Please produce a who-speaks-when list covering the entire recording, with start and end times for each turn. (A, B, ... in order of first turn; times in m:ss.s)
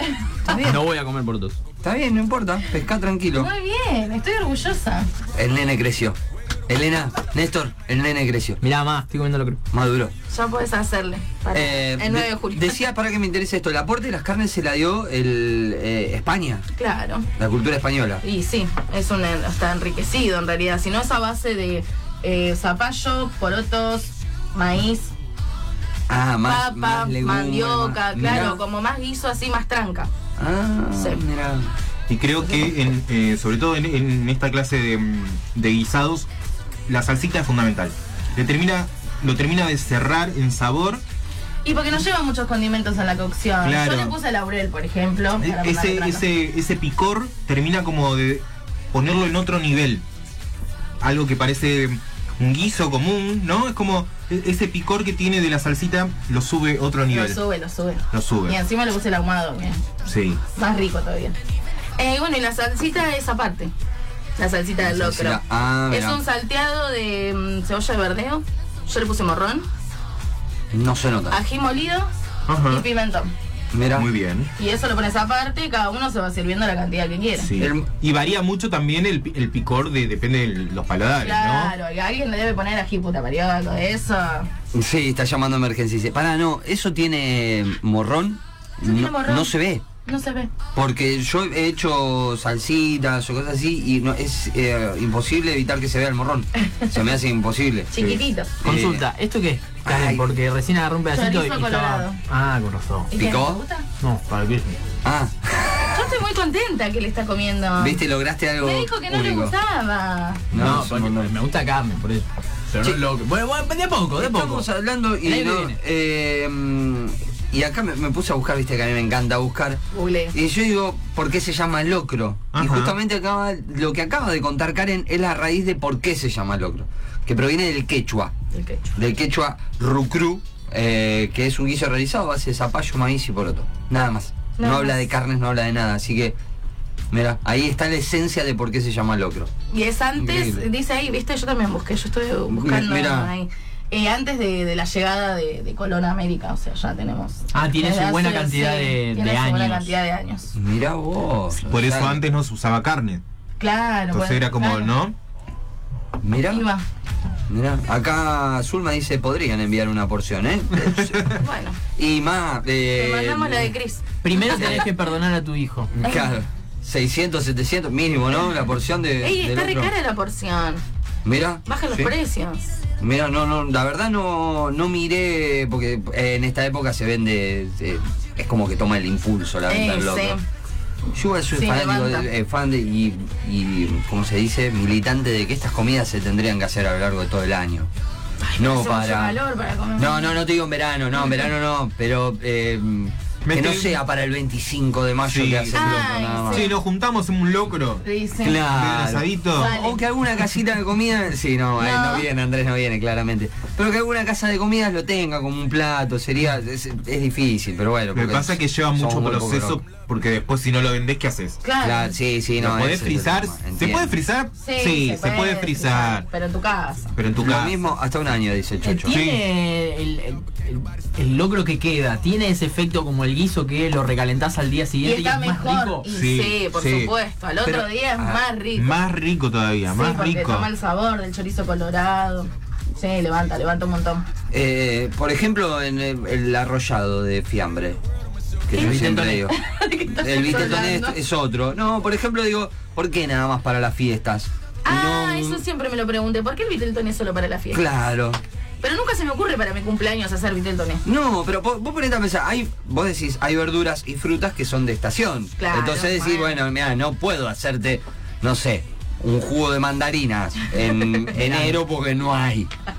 0:00.1-0:00.7 A
0:00.5-0:01.6 B
0:01.8-0:03.5 C
0:03.4-0:05.1 A
0:05.3-0:08.6 C
0:08.6-0:09.6 B
0:09.7-0:10.1 C
0:10.3-0:12.8 A
0:11.5-0:16.6 C
0:16.7-0:17.3 A
0:17.4-0:18.2 C
0:18.2-0:25.1 A
0:26.1-0:28.6 C
0:26.4-0:30.1 A
0:30.4-0:31.7 C
0:30.9-0:31.2 A
0:32.1-0:36.3 D
0:36.9-0:41.0 D
0:41.6-0:46.2 A
0:43.6-0:44.2 D
0:45.4-0:50.0 D
0:51.0-0:57.4 D
0:57.1-0:59.8 A
0:58.1-0:58.6 D
1:00.0-1:00.4 D
1:00.5-1:01.4 A
1:02.0-1:03.7 A
1:04.4-1:09.7 A
1:04.8-1:06.2 C
1:10.7-1:11.4 C
1:11.3-1:12.1 A
1:12.5-1:12.8 D
1:12.7-1:13.3 A
1:13.7-1:14.1 C
1:13.9-1:14.5 D
1:14.6-1:17.5 A
1:17.4-1:21.7 D
1:17.6-1:17.9 C
1:21.2-1:24.5 A
1:24.7-1:29.8 C
1:28.8-1:29.5 A
1:30.0-1:30.5 A
1:30.7-1:39.0 C
1:36.6-1:37.0 A
1:37.9-1:38.5 A
1:38.6-1:43.1 B
1:39.8-1:40.3 C
1:41.1-1:42.2 A
1:43.1-1:43.8 A
1:43.2-1:43.6 C
1:44.0-1:44.8 B
1:45.0-1:46.0 C
1:45.9-1:48.0 A
1:47.8-1:49.5 C
1:48.6-1:50.5 A
1:50.5-1:51.3 C
1:50.5-1:54.6 B
1:54.2-1:59.8 C
1:55.2-1:55.8 B
1:59.9-2:00.4 A
2:00.3-2:08.3 C
2:02.5-2:02.9 D
2:08.5-2:08.9 A
2:08.9-2:16.4 C
2:14.6-2:15.0 A
2:17.1-2:19.5 C
2:19.7-2:30.5 A
2:20.2-2:20.6 C
2:22.5-2:23.3 C
2:27.5-2:29.9 B
2:30.5-2:32.2 C
2:31.6-2:33.2 D
2:33.6-2:34.9 A
2:34.1-2:35.1 D
2:36.2-2:36.6 C
2:36.5-2:36.8 A
2:37.5-2:41.4 C
2:41.3-2:41.8 A
2:42.0-2:43.7 C
2:42.9-2:44.8 A
2:44.2-2:45.9 B
2:44.4-2:44.9 C
2:46.0-2:49.9 C
2:46.0-2:46.4 A
2:49.2-2:50.8 A
2:51.2-2:52.1 C
2:51.6-2:52.8 A
2:53.0-3:00.4 C
2:59.7-3:00.4 A
3:01.1-3:07.9 C
3:01.5-3:02.3 A
3:08.4-3:10.4 A
3:08.6-3:09.4 C
3:10.0-3:16.7 C
3:13.4-3:14.0 D
3:15.2-3:18.0 D
3:15.7-3:16.7 A
3:18.0-3:18.6 A
3:18.4-3:29.8 C
3:18.6-3:19.7 D
3:19.5-3:20.0 A
3:21.8-3:22.2 A
3:28.1-3:31.6 D
3:31.6-3:32.1 A
3:31.8-3:34.1 C
3:32.6-3:36.3 D
3:34.6-3:37.1 A
3:37.1-3:37.8 D
3:37.4-3:39.1 C
3:38.8-3:46.0 B
3:39.0-3:39.4 D
3:45.0-3:49.0 A
3:46.0-3:47.1 D
3:47.6-3:48.4 C
3:48.7-3:50.7 D
3:49.9-3:54.2 A
3:54.5-3:58.0 C
3:58.7-3:59.5 C
3:58.7-4:01.2 A
4:00.2-4:05.6 C
4:04.8-4:07.8 A
4:07.7-4:08.4 C
4:08.8-4:11.0 A
4:11.0-4:22.7 C
4:15.6-4:16.5 A
4:21.4-4:21.8 B